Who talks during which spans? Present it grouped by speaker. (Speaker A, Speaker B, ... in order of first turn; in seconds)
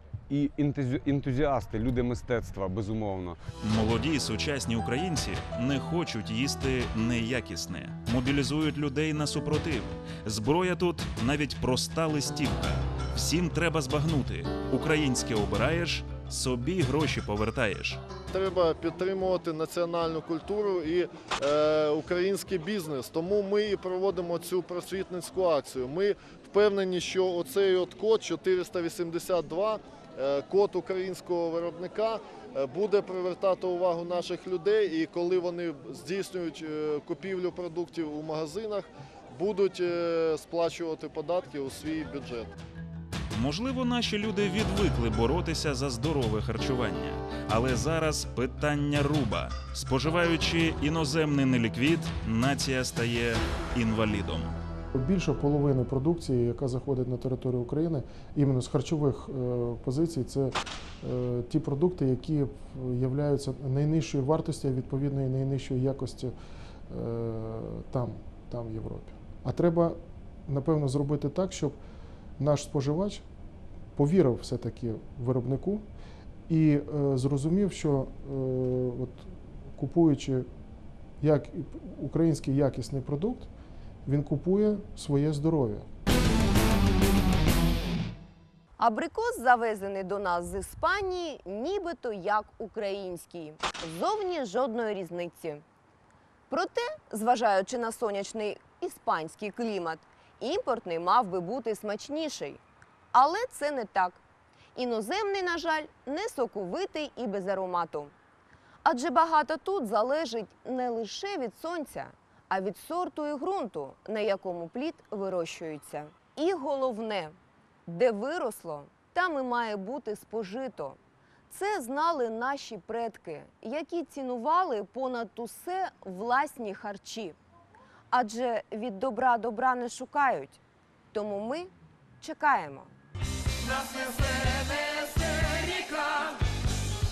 Speaker A: 0.3-3.4
Speaker B: 3.6-18.0, 43.3-54.6
Speaker C: 18.3-42.5
Speaker D: 54.9-66.3, 66.9-71.8, 72.4-73.2, 74.0-75.8, 76.5-80.5, 81.2-83.5, 84.0-85.8
Speaker E: 88.8-95.6, 96.5-102.6, 103.1-104.2, 104.7-108.1, 108.8-117.3, 117.9-121.0, 121.5-127.3, 128.1-130.6, 131.1-132.9